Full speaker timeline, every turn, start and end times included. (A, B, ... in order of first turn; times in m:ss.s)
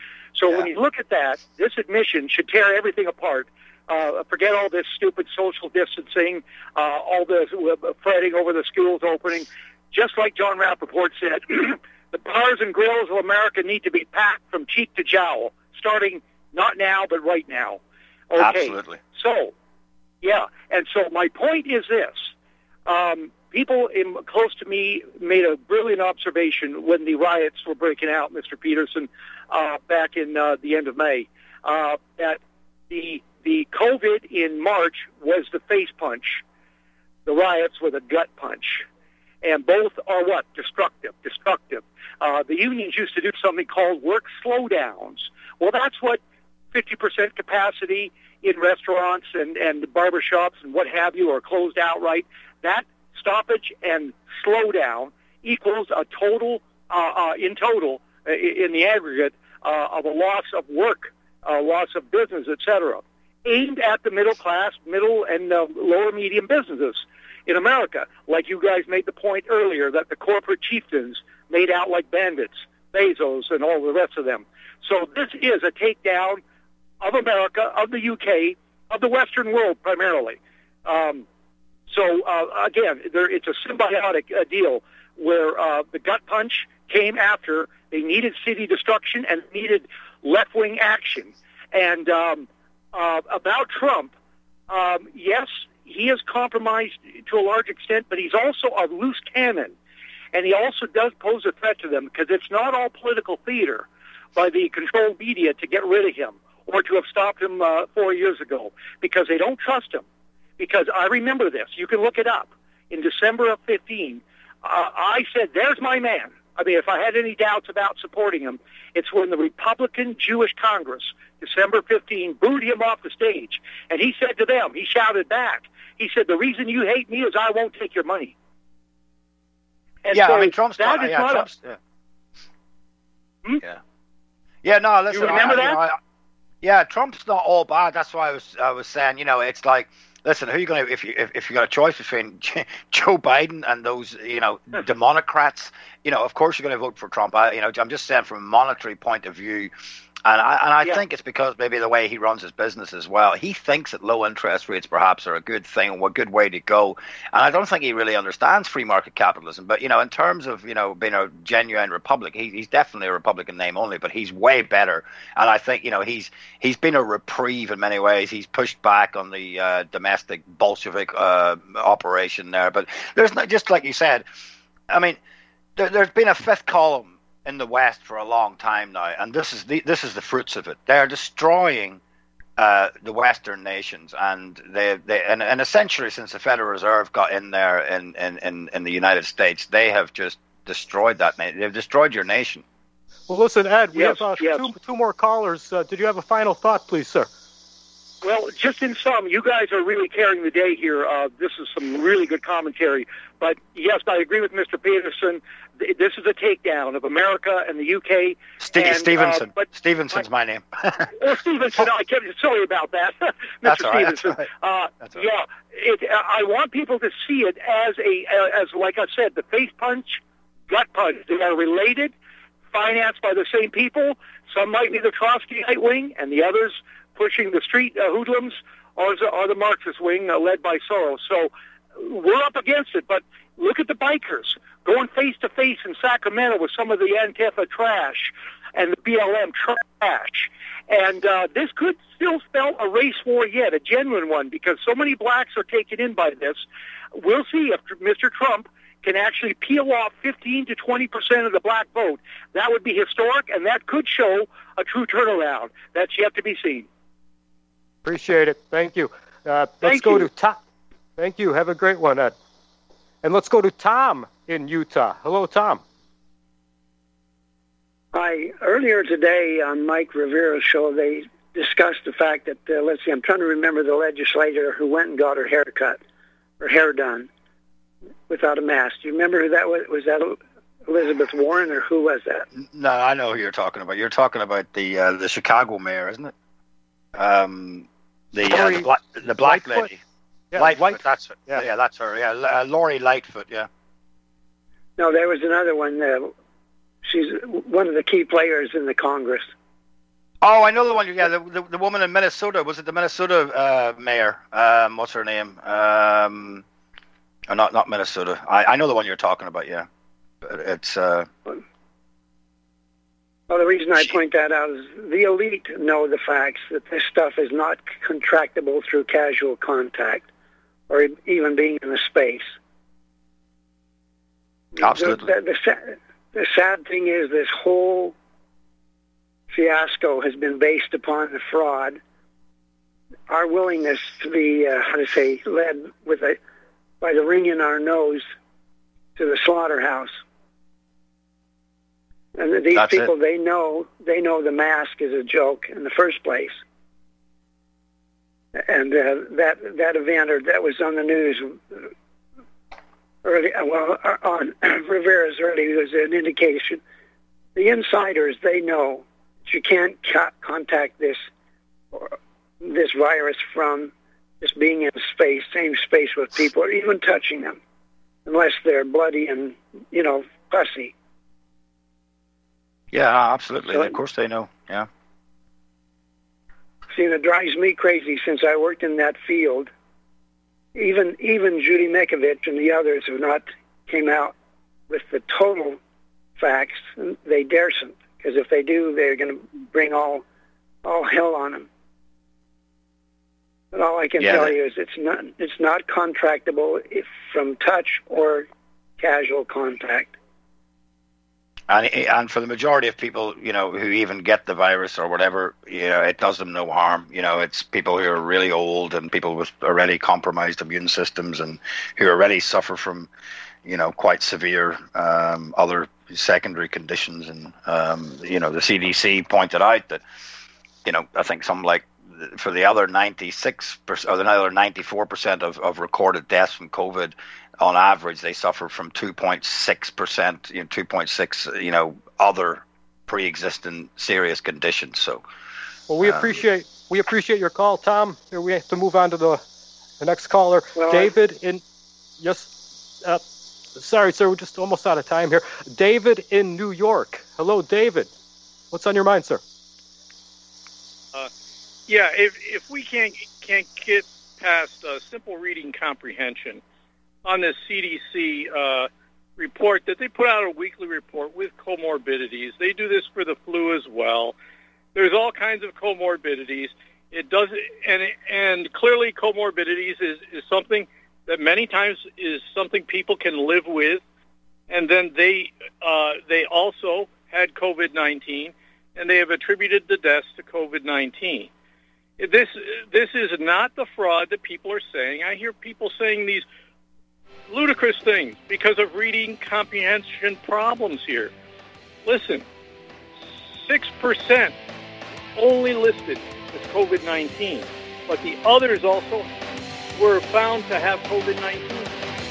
0:00.4-0:19.5 A
0:18.4-0:19.0 B
0:20.2-0:22.3 A
0:22.9-0:36.4 A
0:37.3-0:38.9 A
0:39.4-0:46.2 A
0:46.7-1:16.4 A
1:17.0-1:21.3 A
1:21.9-1:34.1 A
1:34.7-1:39.8 A
1:40.3-1:50.0 A
1:50.6-2:08.3 A
2:10.0-2:11.5 A
2:10.1-2:11.8 B
2:14.6-2:16.0 B
2:15.1-2:15.8 A
2:16.6-2:29.7 B
2:30.2-2:54.2 B
2:54.9-2:55.2 B
2:55.8-3:02.0 B
3:02.6-3:12.6 B
3:13.3-3:17.3 C
3:13.9-3:14.7 A
3:18.2-3:30.2 A
3:28.6-3:31.1 B
3:31.2-3:42.1 A
3:33.6-3:34.5 B
3:42.7-4:16.9 A
4:18.0-4:20.6 C
4:19.8-4:20.3 A
4:21.2-4:22.4 C
4:23.2-4:25.8 C
4:28.1-4:36.0 D
4:36.6-4:37.3 D
4:38.3-4:42.5 D
4:42.6-4:46.3 B
4:47.2-4:50.0 B
4:48.4-4:49.9 C
4:50.5-4:51.6 C
4:50.6-4:53.7 B
4:55.0-4:56.3 D
4:57.0-4:59.5 D
5:00.4-5:06.6 B
5:07.5-5:09.9 B
5:10.4-5:11.3 B
5:13.5-5:20.3 D
5:20.9-5:22.5 D
5:24.8-5:28.2 D
5:24.8-5:25.3 B
5:29.5-5:32.0 D
5:33.3-5:36.4 D
5:37.0-5:38.2 D
5:39.2-5:40.2 D
5:42.4-5:46.6 D
5:42.7-5:43.1 B
5:48.6-5:51.9 D
5:53.2-5:56.8 D
5:57.6-6:01.2 D
6:01.9-6:07.6 D
6:08.3-6:10.9 D
6:12.9-6:14.9 B
6:13.7-6:14.0 D
6:16.9-6:19.7 D
6:20.8-6:24.3 D
6:24.9-6:25.8 D
6:26.4-6:30.2 D
6:30.8-6:31.7 D
6:33.7-6:38.5 D
6:34.2-6:34.6 B
6:39.0-6:40.2 D
6:41.7-6:53.1 B
6:53.6-7:00.0 B
7:00.8-7:15.2 B
7:15.9-7:19.4 C
7:16.0-7:16.4 B
7:20.0-7:21.6 C
7:20.8-7:21.1 D
7:22.2-7:23.2 C
7:23.8-7:28.1 C
7:28.7-7:29.4 C
7:31.9-7:36.6 E
7:37.2-7:44.4 E
7:45.0-7:54.0 E
7:54.7-8:01.5 E
8:02.2-8:06.5 E
8:07.5-8:11.3 E
8:12.0-8:12.5 E
8:13.6-8:14.6 E
8:15.4-8:19.3 E
8:19.9-8:22.0 E